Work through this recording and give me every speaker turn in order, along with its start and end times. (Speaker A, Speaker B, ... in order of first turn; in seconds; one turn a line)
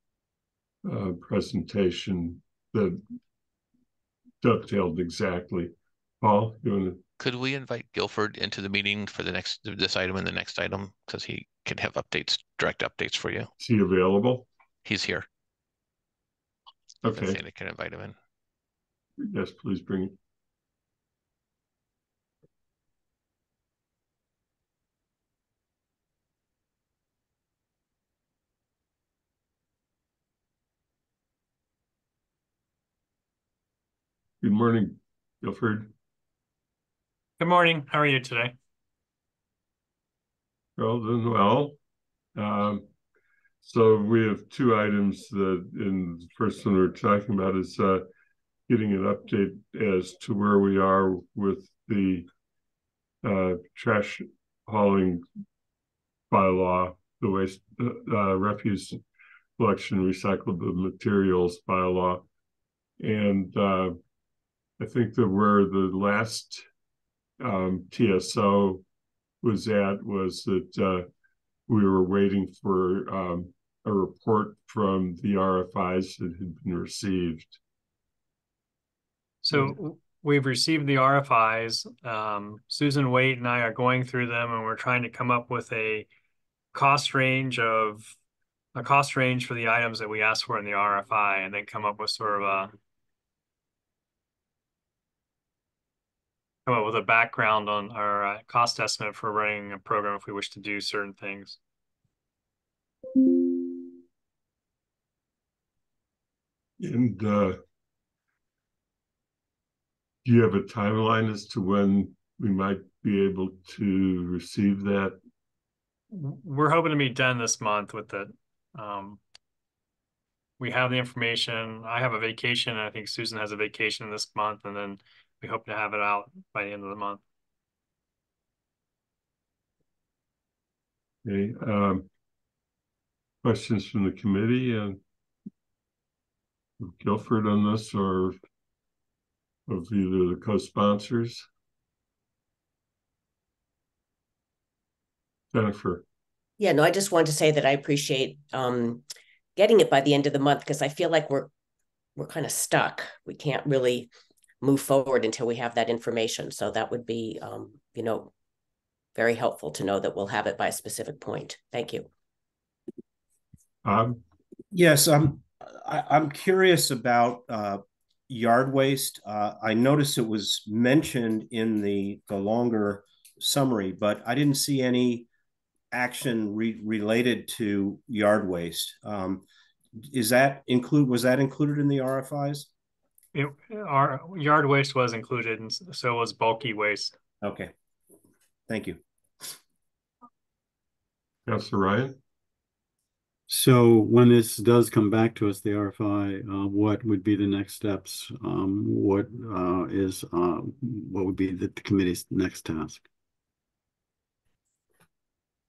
Speaker A: 0.8-3.0
Speaker A: 4.4-7.0
Speaker B: 7.2-13.5
Speaker A: 13.6-14.5
Speaker B: 14.8-15.2
Speaker A: 17.0-17.4
Speaker B: 17.1-18.1
Speaker A: 19.2-20.1
Speaker A: 34.4-35.9
Speaker C: 37.4-38.5
Speaker A: 40.8-41.8
Speaker A: 42.4-42.8
Speaker A: 43.6-48.0
Speaker A: 48.7-52.3
Speaker A: 53.2-55.2
Speaker A: 56.3-59.0
Speaker A: 59.6-62.2
Speaker A: 63.0-64.0
Speaker A: 64.8-66.6
Speaker A: 67.4-68.8
Speaker A: 69.4-71.1
Speaker A: 71.7-77.6
Speaker C: 79.4-86.1
Speaker C: 86.7-88.1
Speaker C: 88.7-92.7
Speaker C: 96.7-101.6
Speaker A: 106.8-107.6
Speaker A: 110.2-115.2
Speaker C: 116.1-119.2
Speaker C: 120.6-127.2
Speaker A: 131.2-132.1
Speaker A: 133.4-135.0
Speaker A: 136.8-138.4
Speaker A: 139.7-141.4
Speaker A: 145.5-146.0
Speaker D: 146.6-149.0
Speaker D: 149.6-151.5
Speaker D: 152.2-154.1
Speaker D: 154.6-158.3
Speaker D: 159.1-162.1
Speaker A: 163.8-164.2
Speaker E: 164.7-175.3
Speaker E: 175.9-179.4
Speaker E: 180.0-182.7
Speaker C: 183.3-187.1
Speaker E: 187.4-187.7
Speaker E: 188.7-189.5
Speaker A: 191.4-192.1
Speaker F: 193.5-203.0